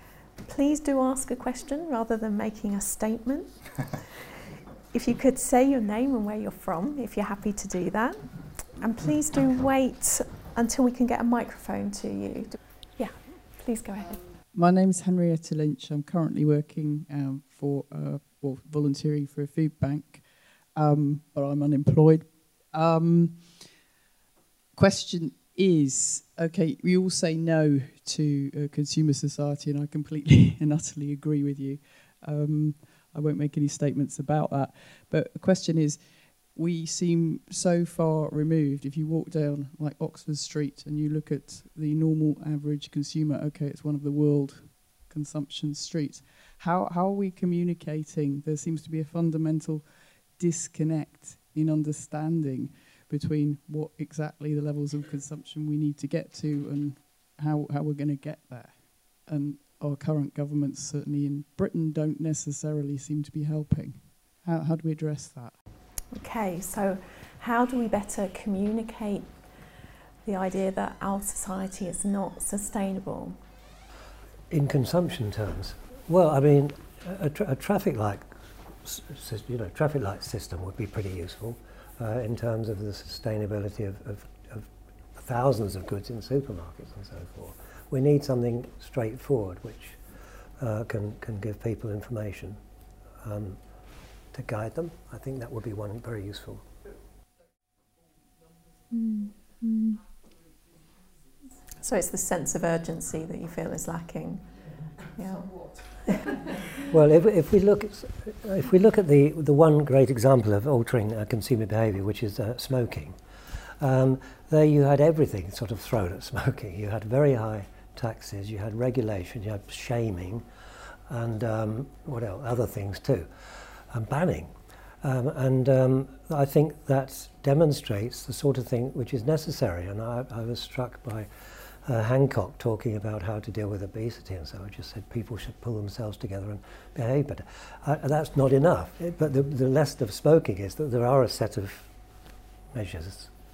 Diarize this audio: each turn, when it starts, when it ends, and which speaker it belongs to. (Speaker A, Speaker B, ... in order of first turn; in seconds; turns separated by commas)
Speaker A: 0.5-4.0, Speaker A: 4.9-14.3, Speaker B: 14.5-23.8, Speaker B: 24.7-65.6, Speaker A: 66.1-69.4, Speaker A: 70.2-73.4, Speaker C: 74.5-78.3, Speaker C: 78.8-90.0, Speaker C: 90.6-92.6, Speaker C: 93.2-93.6, Speaker C: 94.3-96.6, Speaker A: 99.0-100.0, Speaker A: 101.8-106.4, Speaker C: 106.9-113.2, Speaker C: 113.8-120.5, Speaker C: 121.1-131.3, Speaker C: 131.8-141.9, Speaker C: 142.7-143.3